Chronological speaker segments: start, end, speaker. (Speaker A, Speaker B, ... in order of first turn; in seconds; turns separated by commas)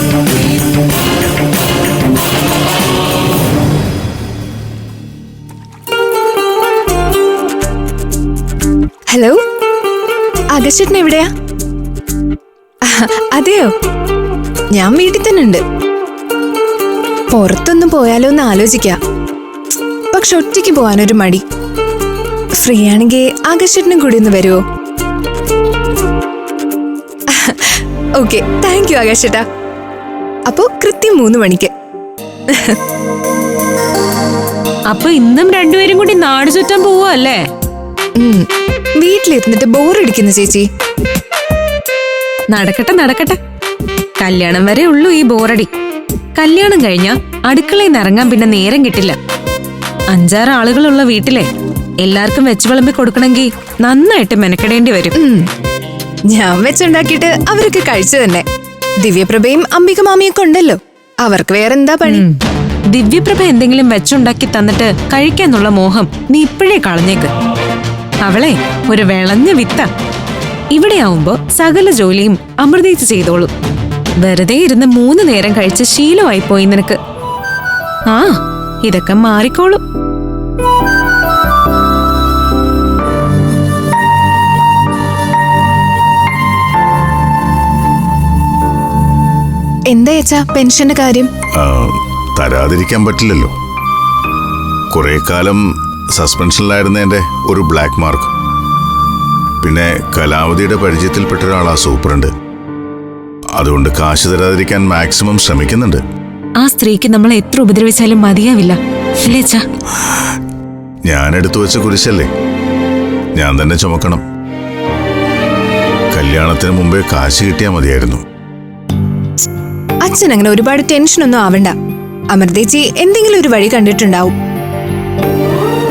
Speaker A: 9.1-9.4, Speaker A: 10.5-11.3, Speaker A: 12.9-13.7, Speaker A: 14.7-15.6, Speaker A: 17.3-19.0, Speaker A: 20.1-21.4, Speaker A: 22.6-24.6, Speaker A: 27.3-29.4, Speaker A: 30.5-31.7, Speaker A: 32.5-32.8, Speaker B: 34.9-37.4, Speaker A: 38.2-38.5, Speaker A: 39.0-40.7, Speaker B: 42.5-43.4, Speaker B: 44.2-45.7, Speaker B: 46.4-49.2, Speaker B: 50.1-51.5, Speaker B: 52.0-55.1, Speaker A: 55.2-55.5, Speaker A: 56.3-58.5, Speaker A: 59.0-62.2, Speaker B: 62.1-62.4, Speaker B: 62.9-67.3, Speaker B: 68.2-69.9, Speaker B: 70.7-73.5, Speaker B: 74.2-77.0, Speaker B: 78.1-79.8, Speaker A: 89.9-91.3, Speaker C: 91.6-93.5, Speaker C: 94.9-95.6, Speaker C: 96.1-98.3, Speaker C: 99.6-102.3, Speaker C: 103.6-106.0, Speaker B: 106.6-109.6, Speaker C: 111.1-112.3, Speaker C: 113.4-114.2, Speaker C: 116.1-118.2, Speaker A: 120.0-121.8, Speaker A: 122.3-124.3